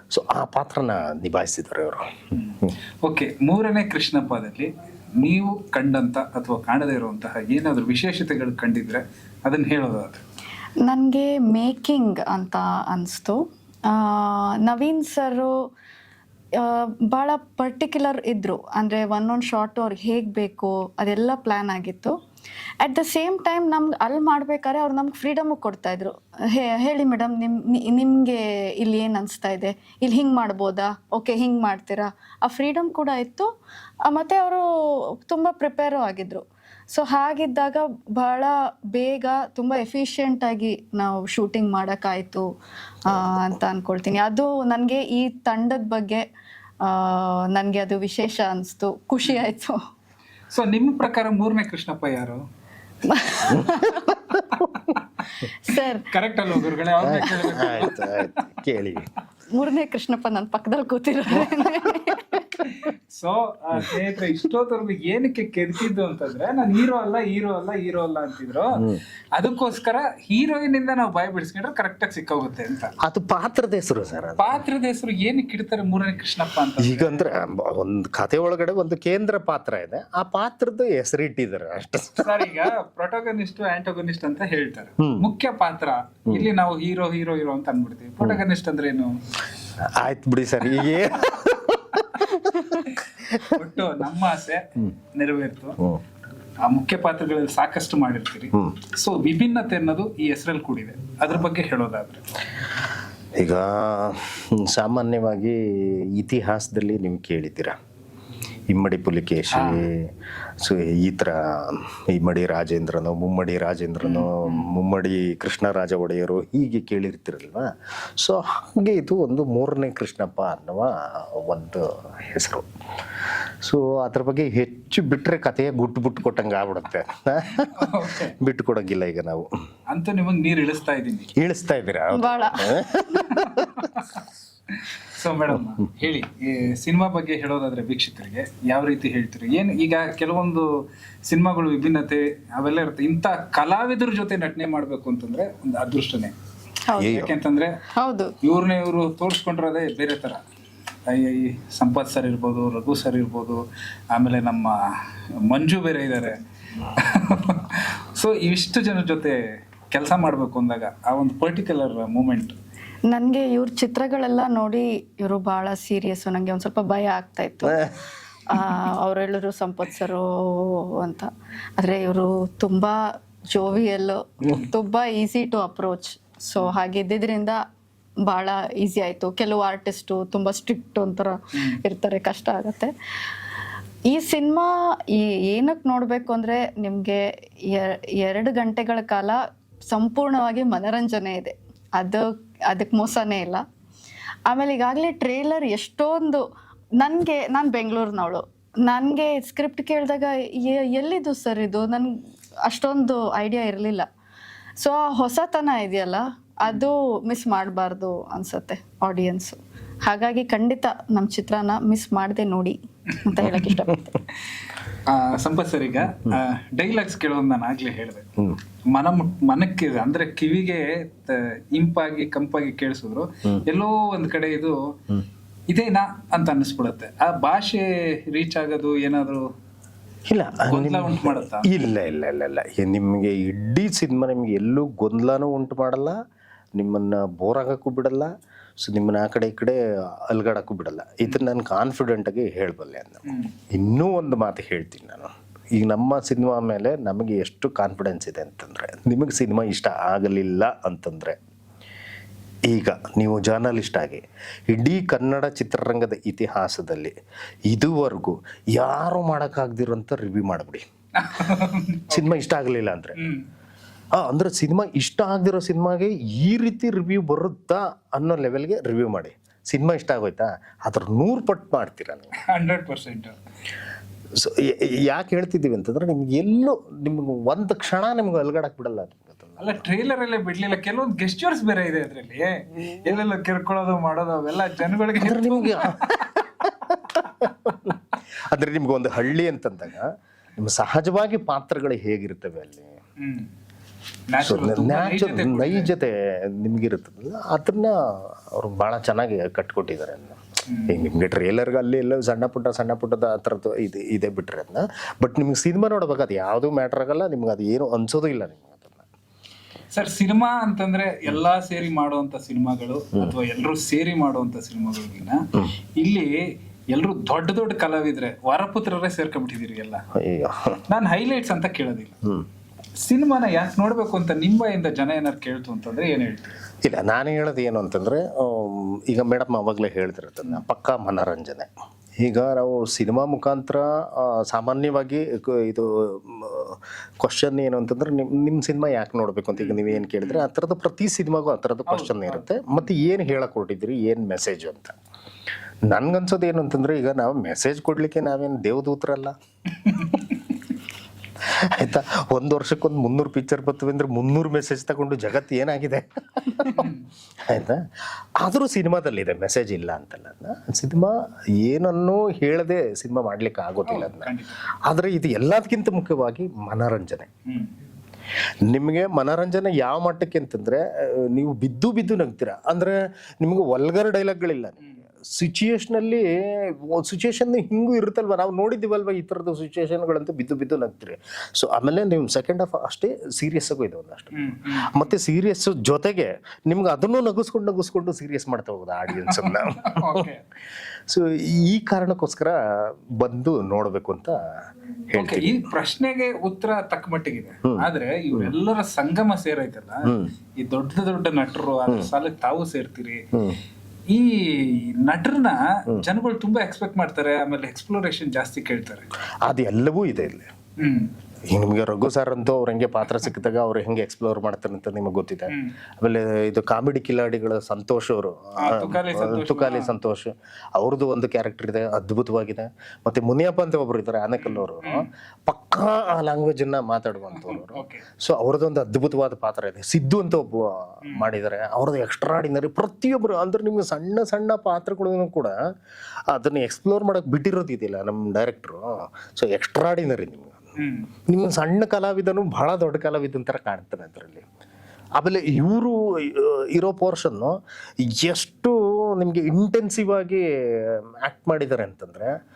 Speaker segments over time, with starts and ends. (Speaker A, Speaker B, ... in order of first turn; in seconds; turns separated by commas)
Speaker A: 0.1-2.1, Speaker B: 2.3-10.2, Speaker C: 10.8-15.7, Speaker C: 16.5-22.1, Speaker C: 22.8-33.5, Speaker C: 34.0-42.5, Speaker C: 43.0-46.2, Speaker C: 46.8-49.8, Speaker B: 50.5-52.4, Speaker C: 53.0-54.2, Speaker B: 54.5-58.3, Speaker C: 55.6-56.0, Speaker A: 57.0-59.1, Speaker C: 59.5-62.6, Speaker B: 62.6-72.9, Speaker A: 68.8-69.0, Speaker A: 73.0-74.6, Speaker B: 74.4-77.2, Speaker A: 76.8-82.4, Speaker B: 82.2-89.2, Speaker A: 85.0-85.2, Speaker A: 89.8-93.6, Speaker B: 92.2-95.8, Speaker B: 96.6-102.2, Speaker A: 103.4-107.8, Speaker A: 108.7-122.7, Speaker B: 109.5-109.8, Speaker B: 114.0-114.7, Speaker A: 123.6-129.5, Speaker B: 127.5-128.3, Speaker B: 129.9-131.3, Speaker A: 131.3-133.9, Speaker C: 132.1-133.3, Speaker B: 133.3-134.2, Speaker B: 134.7-140.7, Speaker B: 141.3-146.3, Speaker C: 146.9-147.2, Speaker A: 147.0-147.3, Speaker B: 147.0-147.8, Speaker C: 147.9-148.3, Speaker B: 148.4-150.4, Speaker B: 151.1-154.8, Speaker B: 155.4-156.4, Speaker B: 156.9-159.4, Speaker B: 159.9-162.6, Speaker C: 163.1-167.9, Speaker A: 167.7-168.0, Speaker C: 168.5-177.6, Speaker C: 178.2-182.9, Speaker B: 181.5-181.8, Speaker C: 184.1-193.6, Speaker C: 194.5-196.4, Speaker C: 197.0-204.1, Speaker C: 204.8-214.2, Speaker A: 213.4-214.0, Speaker B: 215.1-218.2, Speaker B: 218.9-224.9, Speaker B: 225.7-229.4, Speaker A: 230.3-236.2, Speaker B: 230.7-231.7, Speaker A: 236.7-251.4, Speaker B: 243.2-243.5, Speaker A: 252.7-257.1, Speaker A: 257.7-260.9, Speaker B: 261.2-262.4, Speaker A: 262.1-263.2, Speaker B: 263.2-263.4, Speaker A: 264.1-272.3, Speaker B: 272.4-273.4, Speaker A: 274.3-279.8, Speaker B: 279.6-286.3, Speaker A: 285.2-292.9, Speaker B: 293.2-293.5, Speaker B: 294.3-295.9, Speaker A: 294.4-309.1, Speaker B: 300.7-301.0, Speaker B: 309.9-315.4, Speaker B: 316.0-320.0, Speaker A: 320.1-320.8, Speaker B: 320.9-322.2, Speaker B: 323.0-326.6, Speaker A: 326.8-345.0, Speaker B: 339.6-340.4, Speaker B: 341.9-342.9, Speaker A: 345.9-349.3, Speaker B: 349.7-350.4, Speaker A: 351.4-356.9, Speaker B: 356.7-357.1, Speaker A: 357.4-367.3, Speaker B: 363.9-364.6, Speaker B: 367.5-367.7, Speaker A: 368.6-390.3, Speaker B: 384.3-385.1, Speaker B: 389.2-390.4, Speaker A: 391.1-394.4, Speaker A: 395.1-395.6, Speaker B: 395.1-403.2, Speaker A: 397.6-398.5, Speaker A: 400.0-400.3, Speaker A: 403.3-403.6, Speaker B: 404.1-409.1, Speaker A: 409.4-410.5, Speaker B: 410.8-411.1, Speaker A: 411.5-435.6, Speaker B: 415.5-415.7, Speaker B: 418.6-419.9, Speaker B: 424.4-425.1, Speaker B: 427.3-428.0, Speaker A: 436.3-440.7, Speaker B: 440.8-441.1, Speaker A: 441.3-444.4, Speaker A: 445.2-452.3